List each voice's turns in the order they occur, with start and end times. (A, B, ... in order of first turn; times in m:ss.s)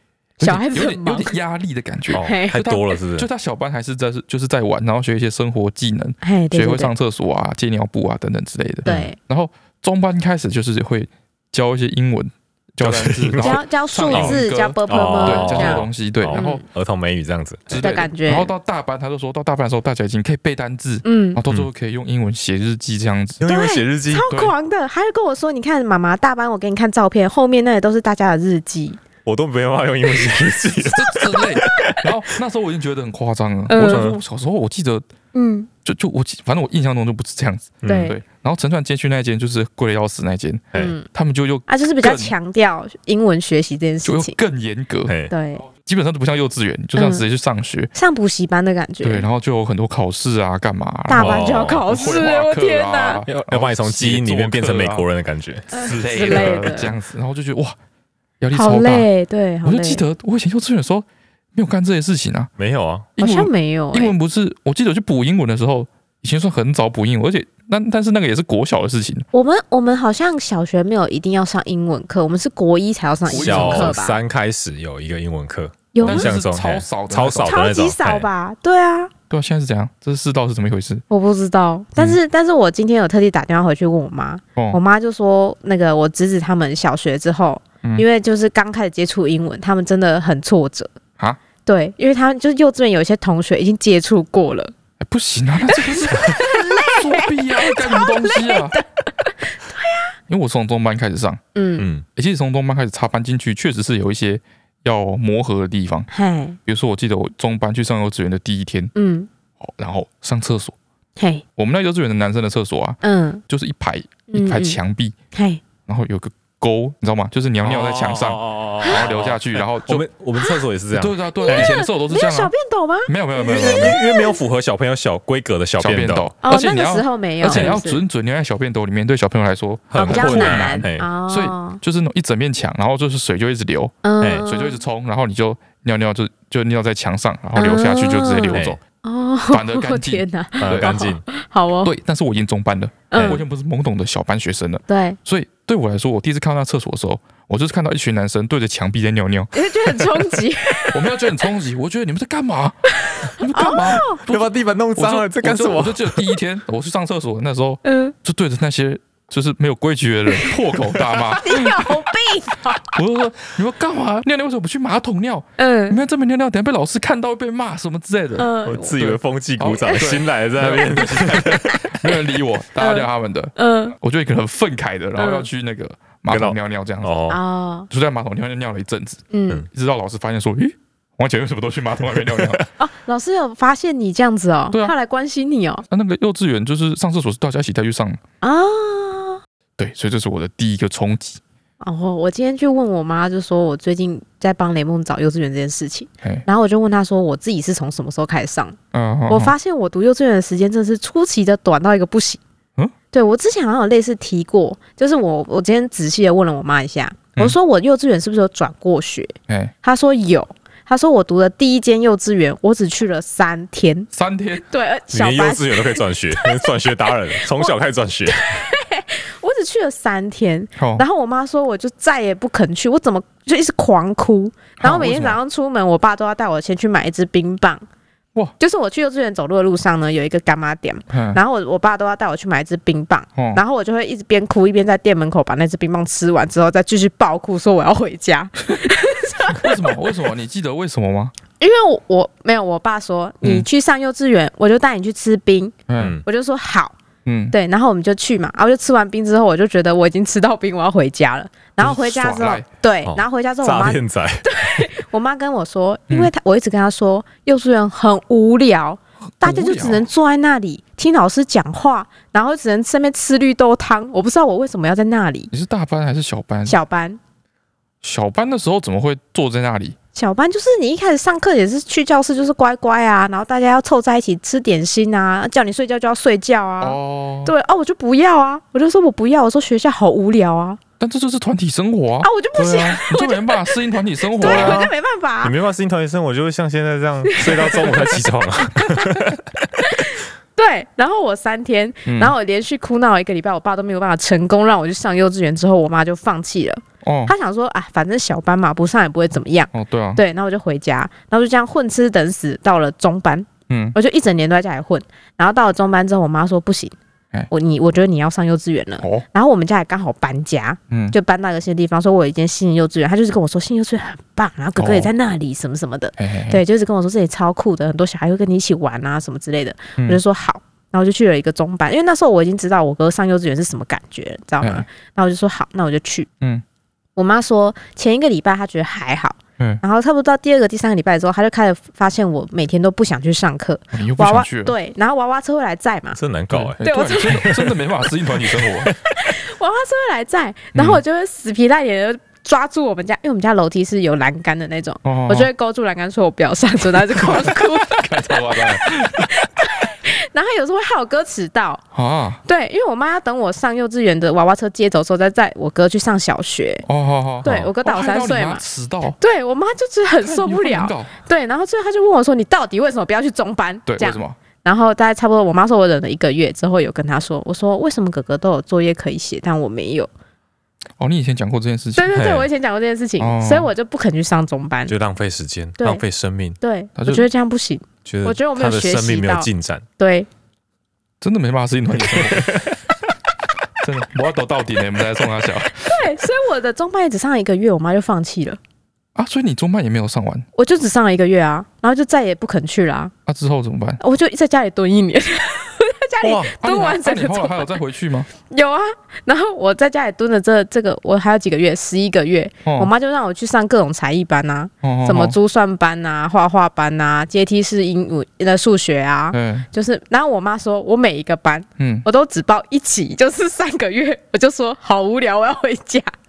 0:00.4-0:16.6 A
0:00.4-0:01.4 B
0:02.1-0:03.3 C
0:02.1-0:02.6 B
0:06.2-0:06.9 B
0:08.8-0:09.2 B
0:08.8-0:09.1 C
0:12.8-0:13.6 C
0:13.4-0:16.6 B
0:14.1-0:17.8 C
0:17.7-0:23.5 A
0:17.8-0:18.5 B
0:21.0-0:21.4 B
0:23.4-0:24.3 C
0:23.4-0:29.0 B
0:24.2-0:24.5 A
0:29.2-0:32.0 C
0:30.9-0:35.0 A
0:31.6-0:32.0 B
0:33.7-0:34.0 B
0:33.8-0:34.2 C
0:35.3-0:35.7 B
0:35.8-0:42.3 A
0:37.8-0:38.1 C
0:37.8-0:38.2 B
0:40.7-0:41.1 B
0:41.7-0:44.4 B
0:44.0-0:45.1 A
0:45.1-0:45.3 C
0:45.3-0:45.6 B
0:45.7-0:47.9 A
0:47.0-0:47.2 B
0:47.9-0:49.3 B
0:49.0-0:55.1 A
0:51.1-0:53.2 B
0:51.2-0:51.9 C
0:53.3-0:56.6 C
0:55.7-0:56.9 B
0:55.7-0:57.8 A
0:58.4-0:59.1 A
0:58.5-1:00.0 B
0:59.6-1:02.5 A
1:02.6-1:03.1 C
1:03.2-1:09.2 A
1:03.2-1:04.1 B
1:09.3-1:14.2 B
1:13.2-1:14.0 A
1:13.4-1:18.3 C
1:15.9-1:16.3 B
1:16.0-1:17.6 A
1:17.4-1:19.1 B
1:19.3-1:21.0 A
1:21.1-1:30.9 B
1:31.6-1:34.7 B
1:35.0-1:38.8 A
1:35.7-1:40.1 B
1:40.3-1:41.4 A
1:41.5-1:41.8 B
1:41.8-1:42.0 C
1:42.2-1:46.1 A
1:46.1-1:46.6 B
1:46.6-1:48.9 A
1:48.9-1:49.3 B
1:49.6-1:50.8 A
1:51.2-1:51.4 B
1:51.6-1:55.1 A
1:53.0-1:53.4 B
1:54.3-1:54.8 B
1:55.3-1:55.6 B
1:55.8-2:00.0 A
1:57.6-2:01.7 C
2:00.4-2:00.6 B
2:00.9-2:02.5 A
2:01.4-2:04.4 B
2:03.0-2:04.0 A
2:03.4-2:06.3 C
2:05.8-2:18.8 A
2:06.4-2:08.0 B
2:07.4-2:07.8 C
2:09.9-2:11.1 C
2:10.0-2:11.8 B
2:14.0-2:14.8 B
2:14.2-2:14.5 C
2:17.5-2:21.9 B
2:18.5-2:18.8 C
2:19.5-2:21.0 A
2:20.6-2:21.2 C
2:21.8-2:30.0 A
2:23.1-2:23.4 B
2:23.1-2:23.4 C
2:24.9-2:25.2 B
2:29.5-2:31.1 B
2:30.9-2:32.8 A
2:33.0-2:34.2 B
2:33.3-2:41.9 A
2:34.1-2:36.2 C
2:37.8-2:38.1 B
2:41.4-2:43.0 B
2:42.8-2:57.2 A
2:45.6-2:46.0 B
2:48.4-2:49.0 B
2:48.6-2:51.8 C
2:49.7-2:50.1 B
2:52.8-2:53.9 B
2:55.2-2:55.5 B
2:56.3-2:57.4 C
2:57.3-2:57.9 B
2:57.9-3:02.6 A
2:59.3-2:59.6 B
3:02.8-3:05.8 B
3:05.9-3:08.2 A
3:08.4-3:09.4 B
3:09.8-3:11.4 A
3:11.8-3:18.8 B
3:18.9-3:19.5 A
3:19.3-3:22.4 B
3:23.1-3:34.1 B
3:29.5-3:29.7 A
3:34.1-3:34.6 A
3:34.7-3:37.7 B
3:35.1-3:38.5 C
3:38.3-3:47.8 B
3:40.8-3:41.0 A
3:44.8-3:45.4 A
3:48.6-3:59.9 B
3:51.1-3:51.4 A
3:53.4-3:53.6 A
3:59.5-4:01.3 A
4:01.6-4:06.9 B
4:05.9-4:06.2 A
4:07.2-4:07.5 A
4:07.5-4:25.5 B
4:11.8-4:12.6 A
4:13.0-4:14.4 C
4:19.4-4:20.0 A
4:25.5-4:26.8 A
4:26.6-4:27.2 B
4:28.0-4:30.0 A
4:30.1-4:40.8 B
4:36.8-4:37.5 A
4:41.0-4:44.8 A
4:42.2-4:43.8 B
4:44.4-4:45.5 B
4:44.4-4:49.4 C
4:47.2-4:49.2 B
4:49.8-5:06.9 B
4:52.0-4:52.3 A
4:57.0-4:57.3 A
4:59.7-5:00.2 A
5:03.7-5:04.0 A
5:07.5-5:26.3 B
5:09.0-5:09.2 A
5:10.9-5:11.2 A
5:14.8-5:15.1 A
5:16.2-5:16.6 A
5:24.6-5:24.8 A
5:27.2-5:36.2 B
5:33.9-5:34.7 A
5:36.1-5:37.8 C
5:36.5-5:38.9 A
5:36.8-5:37.6 B
5:38.4-5:38.9 C
5:39.1-5:51.8 B
5:40.7-5:41.0 A
5:45.0-5:45.5 A
5:47.2-5:49.5 A
5:51.9-5:52.4 A
5:52.4-5:56.8 B
5:56.9-5:59.2 A
5:57.4-5:58.6 B
5:59.2-6:10.1 B
6:00.2-6:01.1 A
6:03.9-6:04.4 A
6:11.0-6:12.1 A
6:12.0-6:14.9 B
6:12.1-6:12.5 C
6:13.2-6:13.7 A
6:14.9-6:16.6 C
6:16.6-6:19.5 B
6:17.0-6:17.3 A
6:18.0-6:19.8 C
6:20.0-6:20.3 B
6:21.2-6:22.6 A
6:22.0-6:22.7 C
6:23.8-6:26.0 A
6:25.8-6:28.6 B
6:29.1-6:30.5 A
6:30.6-6:33.1 B
6:33.2-6:34.0 A
6:34.0-6:37.7 B
6:36.2-6:36.5 C
6:36.5-6:38.3 A
6:38.4-6:56.1 B
6:42.6-6:42.9 A
6:44.8-6:45.4 A
6:49.3-6:49.7 A
6:51.8-6:52.0 A